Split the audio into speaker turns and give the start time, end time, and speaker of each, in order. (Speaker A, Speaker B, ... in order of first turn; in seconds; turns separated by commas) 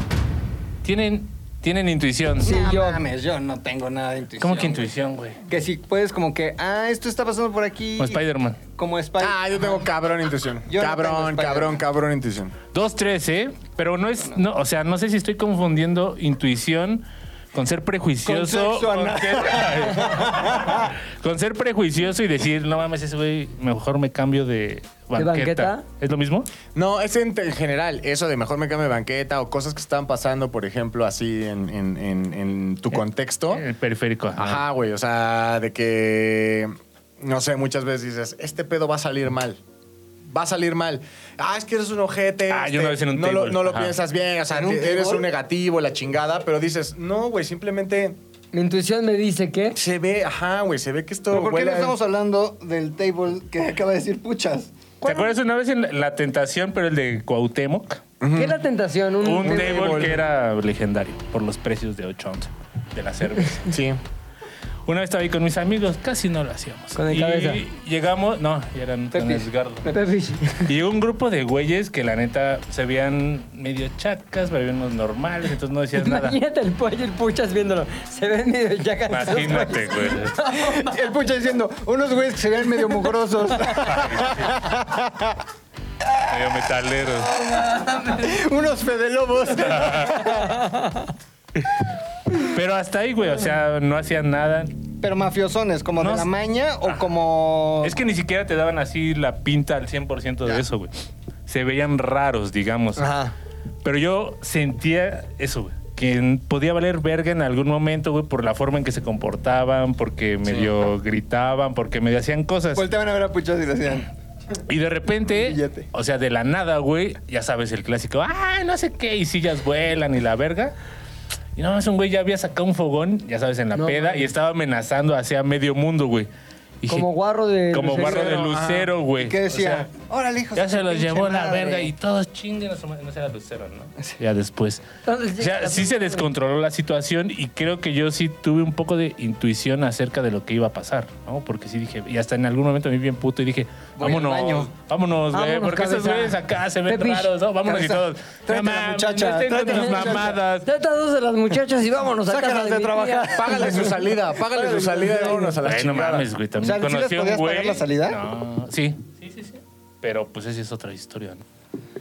Speaker A: 0.8-2.5, Speaker B: 2.4-4.9, Speaker C: 2.4-3.0, Speaker A: 4.4-5.4, Speaker B: 5.5-9.8, Speaker A: 8.0-8.6, Speaker D: 9.2-12.6, Speaker B: 10.7-11.8, Speaker A: 12.7-26.5, Speaker B: 18.2-20.9, Speaker C: 25.1-25.8, Speaker D: 26.8-33.6, Speaker A: 33.5-34.6, Speaker D: 34.4-39.6, Speaker D: 40.3-48.2, Speaker A: 42.5-44.0, Speaker B: 44.5-45.3, Speaker C: 48.5-49.8, Speaker D: 49.8-51.9, Speaker B: 51.3-54.7, Speaker C: 55.0-55.4, Speaker A: 55.0-58.0, Speaker D: 58.2-58.6, Speaker C: 58.4-60.2, Speaker A: 59.2-63.8, Speaker D: 59.4-60.2, Speaker D: 63.7-64.0, Speaker A: 64.9-69.9, Speaker C: 67.0-67.6, Speaker C: 69.2-70.7, Speaker A: 70.6-76.4, Speaker C: 76.0-80.9, Speaker A: 79.1-80.4, Speaker B: 80.6-85.4, Speaker A: 83.8-84.5, Speaker A: 86.2-87.4, Speaker C: 87.2-88.4, Speaker B: 88.2-90.6, Speaker A: 89.6-90.3, Speaker C: 90.3-91.1, Speaker A: 92.4-94.7, Speaker B: 95.0-98.0, Speaker A: 96.0-96.3, Speaker A: 97.8-100.9, Speaker A: 101.5-103.1, Speaker C: 103.0-103.3, Speaker A: 103.8-112.8, Speaker D: 110.5-110.7, Speaker B: 112.8-114.1, Speaker A: 114.7-120.7, Speaker B: 115.3-115.9, Speaker A: 121.6-126.3, Speaker C: 123.8-124.3, Speaker A: 126.8-127.1, Speaker C: 126.9-128.4, Speaker A: 127.7-129.9, Speaker D: 128.0-128.9, Speaker B: 129.2-131.9, Speaker A: 130.6-134.8, Speaker C: 135.1-136.3, Speaker A: 135.4-150.7, Speaker B: 144.0-144.7, Speaker C: 145.3-147.3, Speaker B: 147.7-150.4, Speaker C: 149.6-153.9, Speaker B: 152.3-155.5, Speaker D: 153.3-156.3, Speaker C: 154.6-155.6, Speaker A: 155.6-161.4, Speaker B: 156.6-158.2